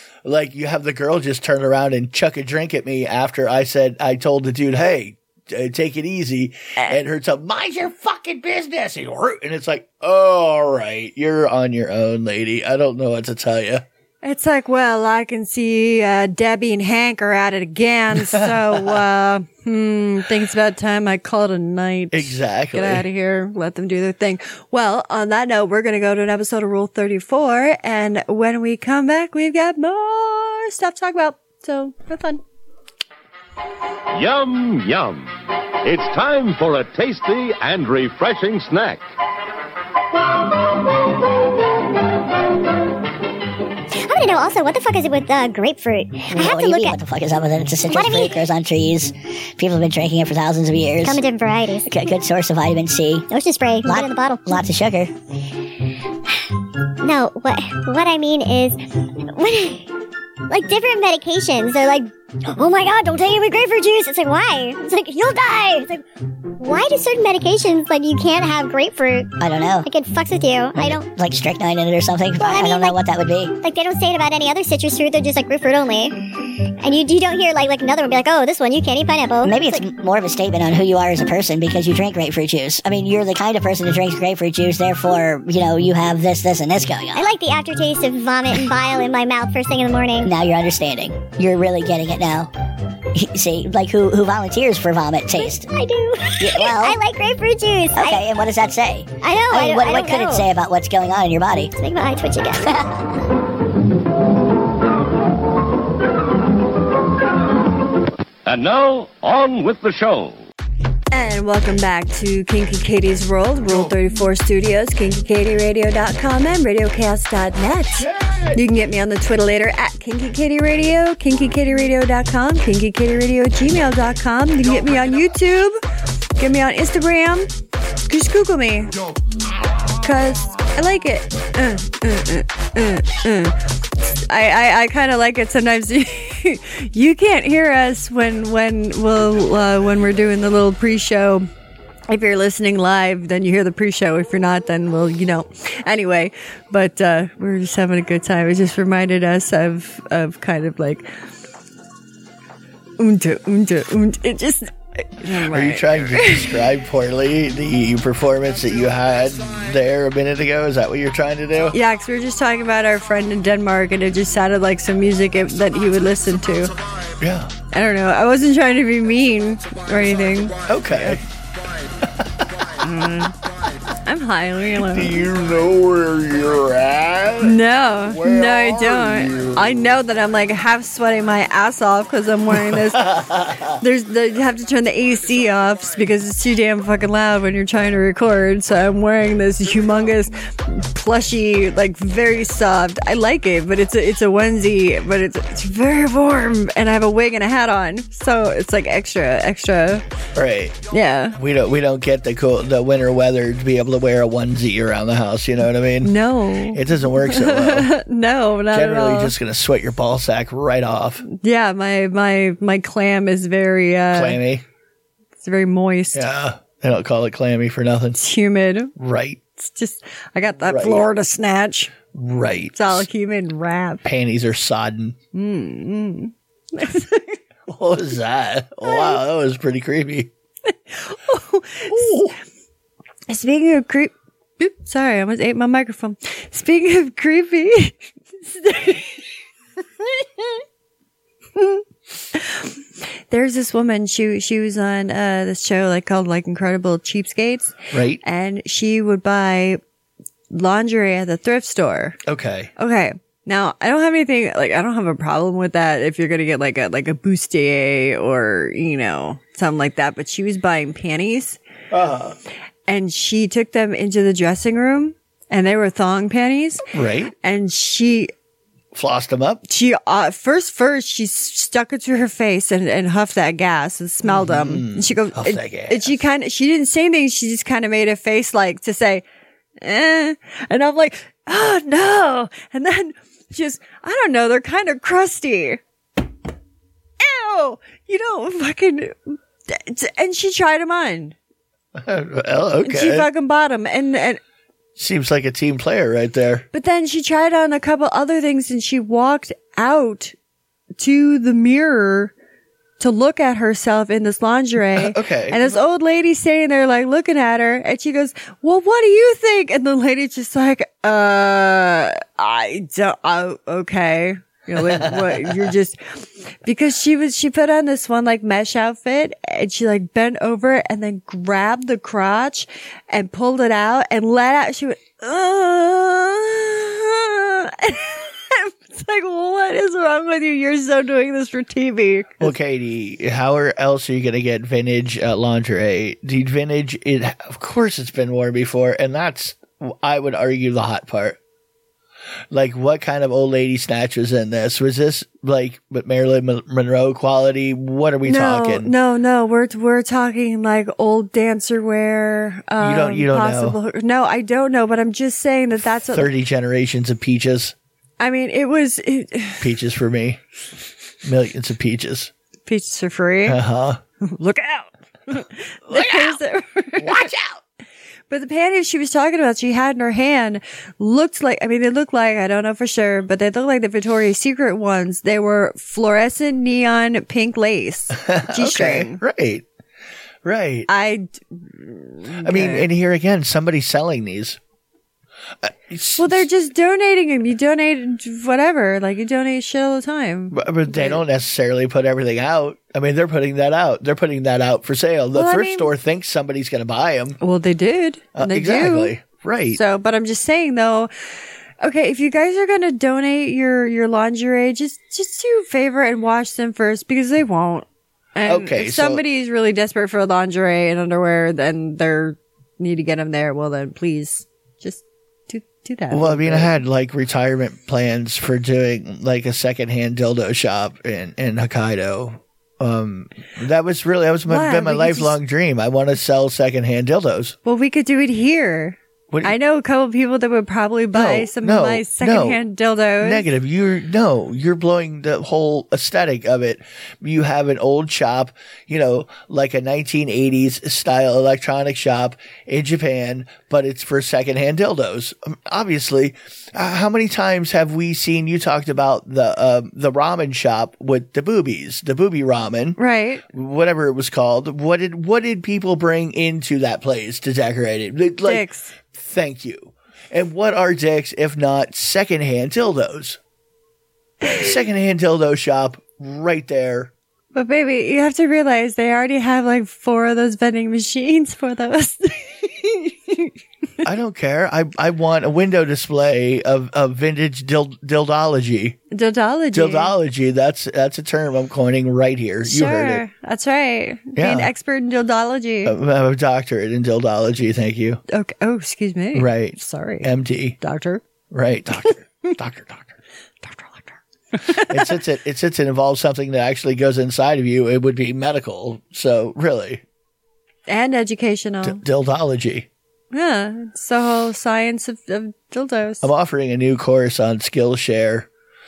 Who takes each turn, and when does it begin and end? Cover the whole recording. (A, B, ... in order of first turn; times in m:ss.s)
0:00.2-0:13.8 A
0:14.2-0:32.4 B
0:18.2-0:19.0 A
0:22.1-0:23.1 A
0:34.1-0:39.0 C
0:43.9-0:47.0 D
0:46.3-0:51.2 E
0:47.9-0:48.4 D
0:51.0-0:52.1 D
0:51.9-0:53.3 E
0:53.3-0:54.6 D
0:53.8-0:55.1 E
0:57.0-0:59.9 D
1:00.5-1:06.0 D
1:06.6-1:11.1 D
1:09.4-1:09.9 E
1:10.8-1:13.5 E
1:12.4-1:13.0 D
1:13.6-1:16.2 D
1:16.8-1:19.8 D
1:19.4-1:27.3 E
1:27.1-1:30.3 D
1:30.2-1:32.5 E
1:33.1-1:35.7 E
1:35.4-1:38.3 D
1:36.4-1:37.0 E
1:38.0-1:41.7 E
1:39.2-1:40.5 D
1:41.8-1:42.8 D
1:48.5-1:50.4 C
1:51.1-2:05.8 B
2:06.4-2:07.5 B
2:08.1-2:08.9 B
2:10.0-2:21.5 B
2:22.1-2:31.1 B
2:33.0-2:36.6 B
2:35.5-2:41.8 A
2:41.7-2:46.8 B
2:47.2-2:47.5 A
2:47.7-2:51.2 B
2:50.7-2:51.2 A
2:52.8-2:53.4 B
2:54.0-2:55.3 B
2:54.9-2:59.9 A
2:57.4-3:20.0 B
3:02.6-3:03.8 A
3:20.4-3:20.8 A
3:20.9-3:21.4 B
3:21.4-3:26.2 A
3:26.0-3:29.4 B
3:26.7-3:27.9 A
3:28.7-3:31.2 A
3:31.3-3:34.4 B
3:34.1-3:34.6 A
3:35.4-3:36.3 B
3:36.1-3:38.2 A
3:38.2-3:38.9 B
3:39.0-3:39.4 A
3:39.6-3:42.0 B
3:40.7-3:41.0 A
3:42.1-3:43.1 A
3:42.8-3:44.0 B
3:44.0-3:45.2 A
3:45.3-3:47.4 B
3:47.7-3:50.3 A
3:48.8-3:49.2 B
3:50.7-3:52.3 B
3:51.9-3:52.4 A
3:53.3-3:59.3 B
4:00.0-4:00.6 B
4:01.6-4:09.8 B
4:07.9-4:08.2 A
4:10.5-4:12.2 B
4:12.3-4:12.7 A
4:12.8-4:21.6 B
4:21.9-4:22.4 A
4:22.9-4:26.8 B
4:26.9-4:27.3 A
4:27.4-4:28.3 B
4:29.0-4:29.6 A
4:29.7-4:39.2 B
4:34.2-4:36.2 A
4:39.8-4:45.8 B
4:47.2-4:51.4 B
4:52.0-4:53.3 A
4:52.8-4:54.4 B
4:55.0-4:56.7 A
4:56.7-5:00.4 B
5:01.0-5:02.3 B
5:03.0-5:32.6 B
5:05.0-5:05.7 A
5:14.8-5:15.7 A
5:32.4-5:41.4 A
5:42.5-5:48.9 A
5:48.2-5:56.3 B
5:52.8-5:53.8 A
5:56.1-5:57.8 A
5:58.2-5:59.7 B
5:59.6-6:00.4 A
6:01.2-6:02.3 A
6:02.7-6:03.6 B
6:03.4-6:04.0 A
6:04.2-6:07.3 B
6:05.9-6:06.4 A
6:07.0-6:07.6 A
6:08.3-6:19.2 B
6:18.1-6:19.6 A
6:20.4-6:20.9 A
6:20.9-6:22.9 B
6:22.4-6:24.6 A
6:25.6-6:26.5 A
6:26.2-6:31.2 B
6:30.5-6:37.4 A
6:35.3-6:35.9 B
6:37.4-6:39.2 B
6:38.4-6:39.8 A
6:39.7-6:41.1 B
6:41.8-6:56.7 B
6:48.5-6:49.2 A
6:56.1-7:07.6 A
7:04.5-7:05.4 B
7:07.6-7:13.5 B
7:11.1-7:12.6 A
7:13.2-7:33.0 A
7:33.0-7:33.4 B
7:33.5-7:43.4 A
7:38.4-7:38.9 B
7:44.4-7:47.1 A
7:47.5-7:53.5 B
7:54.0-7:59.0 A
7:59.1-8:00.1 B
7:59.7-8:03.2 A
8:02.6-8:06.0 B
8:04.4-8:04.7 A
8:05.8-8:08.2 A
8:08.3-8:11.2 B
8:09.3-8:10.8 A
8:11.5-8:13.2 A
8:13.6-8:15.2 B
8:14.7-8:20.0 A
8:20.9-8:22.0 B
8:21.8-8:22.9 A
8:23.3-8:26.3 B
8:26.2-8:28.5 A